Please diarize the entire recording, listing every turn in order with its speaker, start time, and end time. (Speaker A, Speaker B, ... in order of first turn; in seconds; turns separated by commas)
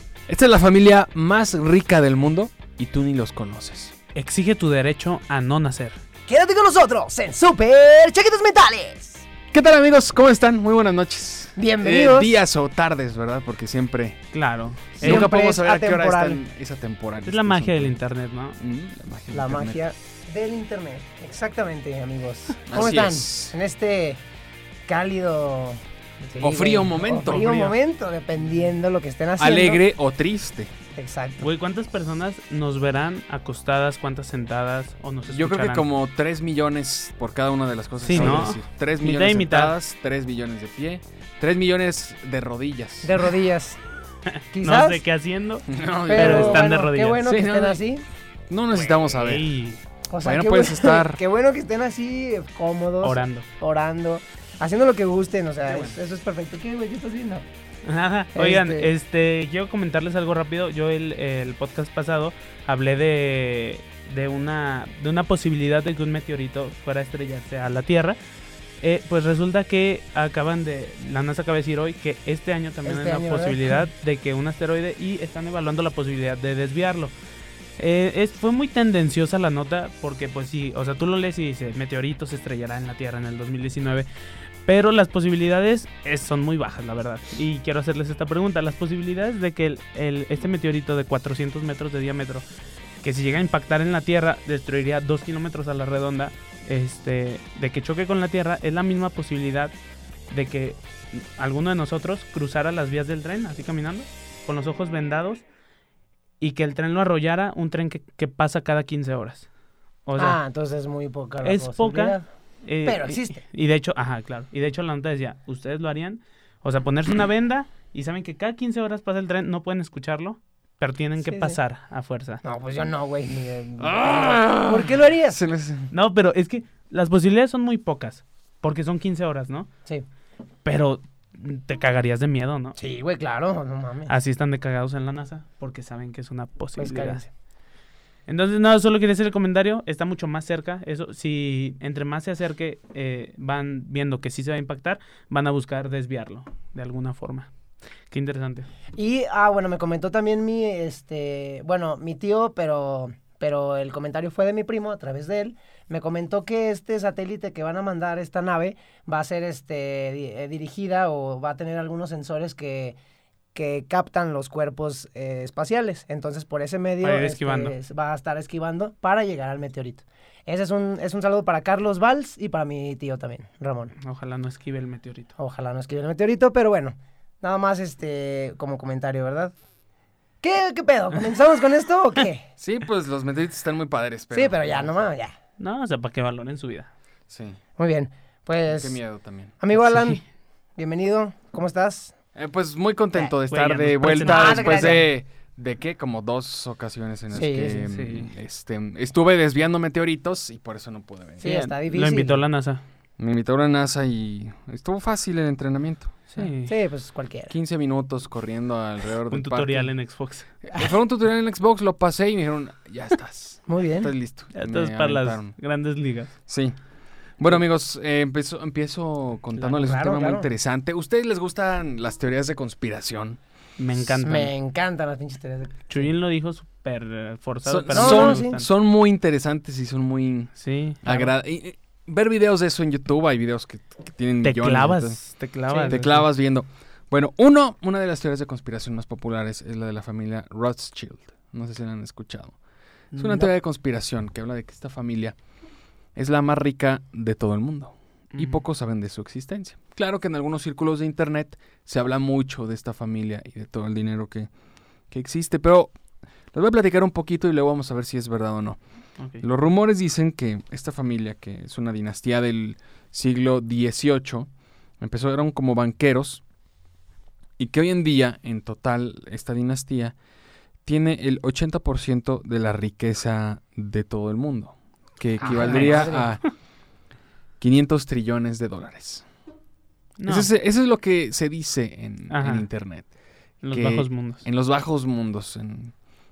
Speaker A: 0.3-3.9, Speaker B: 4.1-6.0, Speaker C: 6.3-9.3, Speaker A: 9.5-14.2, Speaker C: 11.6-12.4, Speaker B: 14.3-15.3, Speaker C: 15.0-16.4, Speaker A: 15.0-17.9, Speaker B: 17.2-18.6, Speaker A: 18.6-19.8, Speaker C: 19.3-24.2, Speaker A: 22.7-23.5, Speaker C: 24.9-29.8, Speaker A: 26.4-27.5, Speaker B: 27.2-27.8, Speaker A: 29.4-30.7, Speaker C: 30.9-31.5, Speaker B: 31.4-35.9, Speaker A: 35.3-43.3, Speaker B: 38.1-39.7, Speaker C: 38.1-38.5, Speaker C: 43.0-43.8, Speaker C: 44.5-45.0, Speaker B: 44.5-47.2, Speaker A: 45.7-46.7, Speaker C: 46.1-48.0, Speaker A: 47.2-47.8, Speaker A: 48.5-49.5, Speaker B: 48.7-49.8, Speaker C: 50.1-57.4, Speaker A: 50.2-51.2, Speaker B: 53.0-53.5, Speaker A: 55.7-56.0, Speaker B: 57.8-68.2, Speaker C: 58.4-58.9, Speaker B: 68.8-77.1, Speaker C: 72.8-73.8, Speaker B: 77.8-84.1, Speaker B: 84.6-92.4, Speaker B: 93.0-99.7, Speaker B: 100.3-105.4, Speaker B: 106.4-109.5, Speaker B: 110.0-110.4, Speaker C: 110.2-112.2, Speaker B: 111.4-122.4, Speaker C: 112.8-113.4, Speaker C: 121.3-121.6, Speaker C: 122.4-125.4, Speaker A: 123.8-125.9, Speaker B: 125.9-129.7, Speaker B: 130.6-132.8, Speaker C: 132.8-134.1, Speaker B: 134.1-137.2, Speaker C: 136.8-137.3, Speaker B: 138.3-147.5, Speaker B: 148.1-148.7, Speaker C: 148.9-163.0, Speaker C: 163.5-173.9, Speaker B: 167.0-167.7, Speaker B: 174.0-175.3, Speaker C: 175.4-179.5, Speaker C: 180.4-182.5, Speaker A: 182.6-184.9, Speaker C: 184.3-185.3, Speaker B: 185.6-186.9, Speaker A: 187.3-187.6, Speaker C: 187.8-189.0, Speaker A: 188.7-189.5, Speaker C: 189.6-190.2, Speaker B: 189.8-190.2, Speaker C: 190.8-192.2, Speaker A: 192.3-201.4, Speaker B: 193.5-195.0, Speaker C: 194.1-195.1, Speaker C: 197.3-197.9, Speaker B: 197.9-198.3, Speaker C: 201.4-202.4, Speaker B: 201.4-202.8, Speaker A: 203.2-206.2, Speaker B: 206.3-206.7, Speaker C: 206.3-207.5, Speaker A: 207.5-209.9, Speaker B: 209.3-210.5, Speaker A: 210.6-215.5, Speaker C: 213.7-214.1, Speaker B: 214.5-216.3, Speaker A: 216.5-216.7, Speaker A: 217.4-223.4, Speaker C: 219.7-220.5, Speaker B: 223.8-224.5, Speaker C: 224.2-226.1, Speaker B: 225.9-228.7, Speaker A: 227.7-230.5, Speaker C: 227.9-228.5, Speaker B: 230.6-231.2, Speaker A: 231.0-235.2, Speaker B: 234.4-236.2, Speaker C: 235.7-236.1, Speaker A: 235.9-242.6, Speaker B: 243.1-243.5, Speaker A: 243.2-245.3, Speaker A: 246.1-254.5, Speaker B: 248.3-248.6, Speaker A: 255.1-255.9, Speaker A: 256.5-258.8, Speaker B: 259.2-259.4, Speaker A: 259.4-264.5, Speaker A: 265.0-266.4, Speaker A: 267.6-270.1, Speaker A: 270.8-276.4, Speaker C: 275.4-276.3, Speaker B: 275.6-276.2, Speaker A: 277.6-279.2, Speaker B: 280.2-280.5, Speaker A: 280.3-283.1, Speaker B: 282.3-282.6, Speaker B: 283.6-284.4, Speaker A: 283.7-285.9